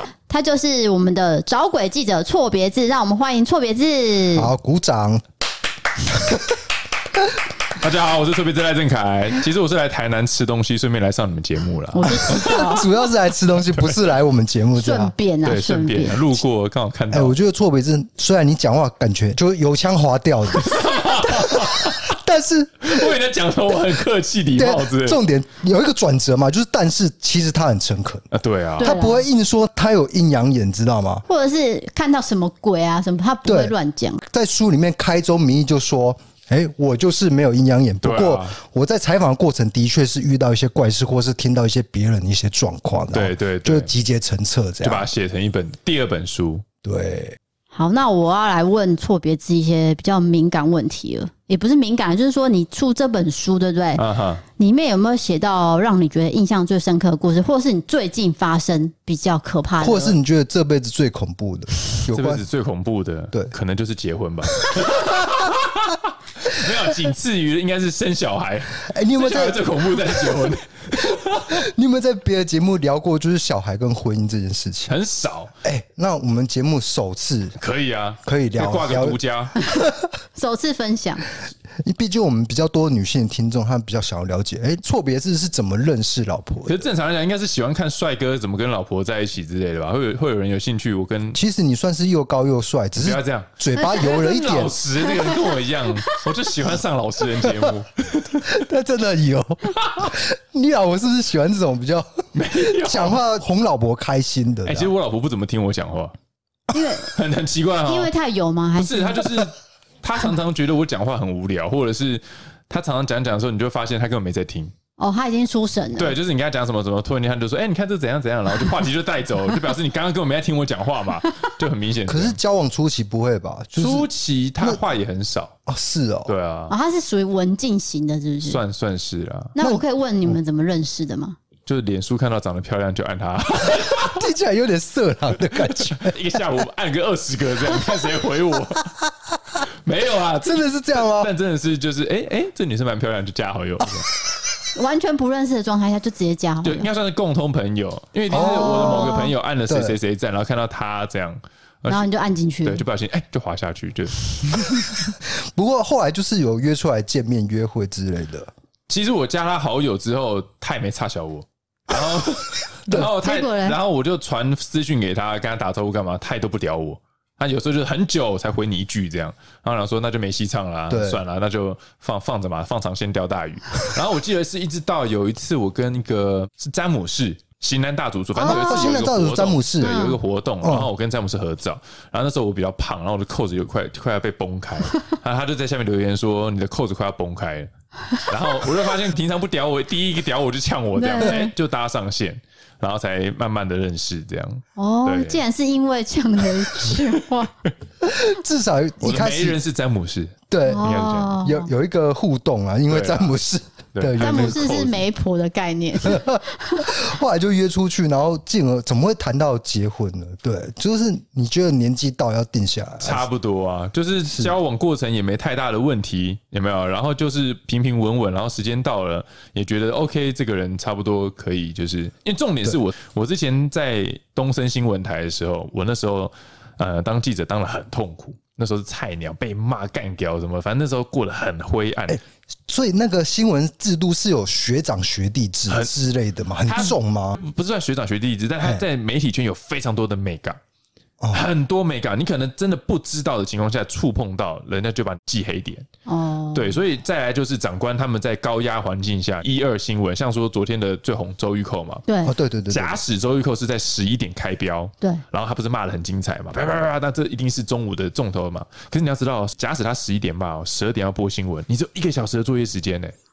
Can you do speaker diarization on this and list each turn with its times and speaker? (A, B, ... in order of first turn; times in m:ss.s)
0:00.3-0:04.5 A
0:04.4-0:05.2 B
0:06.1-0:06.4 B
0:07.8-0:12.4 C
0:11.9-0:12.9 A
0:12.1-0:15.1 B
0:14.8-0:16.4 A
0:15.4-0:17.4 C
0:17.1-0:23.2 B
0:20.6-0:22.1 C
0:22.8-0:25.2 C
0:24.6-0:28.3 B
0:28.3-0:28.9 C
0:28.8-0:29.3 A
0:28.8-0:31.2 B
0:31.3-0:34.2 A
0:33.4-0:33.7 B
0:34.3-0:45.1 B
0:38.0-0:38.6 C
0:43.1-0:43.9 C
0:44.8-0:46.6 C
0:46.8-0:47.4 B
0:47.7-1:00.2 A
0:54.0-0:54.4 C
0:59.8-1:02.4 B
1:02.1-1:11.6 C
1:04.7-1:05.4 B
1:08.8-1:14.9 B
1:14.9-1:15.5 C
1:15.6-1:17.6 B
1:17.6-1:19.6 C
1:18.2-1:20.0 B
1:20.4-1:21.3 A
1:21.8-1:26.9 B
1:26.6-1:31.4 C
1:31.3-1:34.8 B
1:33.0-1:38.5 C
1:35.2-1:35.5 A
1:38.4-1:44.9 B
1:39.8-1:40.1 C
1:42.3-1:43.2 C
1:44.7-1:46.1 C
1:46.7-1:47.1 A
1:47.1-1:48.1 C
1:47.9-1:49.4 A
1:48.8-1:54.7 C
1:55.0-1:56.2 A
1:56.0-2:02.4 C
2:02.1-2:04.1 B
2:03.8-2:05.6 C
2:05.7-2:06.3 B
2:06.3-2:06.7 C
2:06.7-2:08.6 A
2:08.4-2:09.6 C
2:09.6-2:11.4 A
2:09.6-2:10.4 B
2:11.7-2:14.3 C
2:13.8-2:16.2 B
2:15.5-2:19.0 C
2:19.6-2:24.1 C
2:20.4-2:21.3 B
2:24.8-2:26.9 A
2:26.6-2:32.1 C
2:28.3-2:30.0 B
2:28.3-2:29.3 A
2:31.9-2:32.8 A
2:32.6-2:34.9 C
2:35.2-2:38.5 B
2:38.9-3:07.7 C
2:42.9-2:43.8 A
2:50.9-2:51.2 B
2:58.4-3:00.0 B
2:58.4-2:59.0 A
2:59.8-3:00.2 A
3:00.6-3:00.9 B
3:08.2-3:15.4 C
3:11.0-3:11.5 A
3:14.8-3:17.5 A
3:18.0-3:19.6 B
3:19.0-3:21.5 C
3:20.5-3:24.7 B
3:20.6-3:21.7 A
3:22.9-3:23.4 C
3:23.9-3:25.1 C
3:24.2-3:26.9 A
3:26.0-3:33.2 B
3:33.0-3:52.2 C
3:34.3-3:34.5 B
3:52.1-3:57.4 B
3:55.7-3:55.9 C
3:56.6-4:00.6 C
4:01.2-4:01.5 B
4:01.3-4:05.9 C
4:06.1-4:06.8 A
4:06.5-4:12.0 C
4:12.1-4:12.3 A
4:12.2-4:13.0 B
4:12.7-4:23.1 C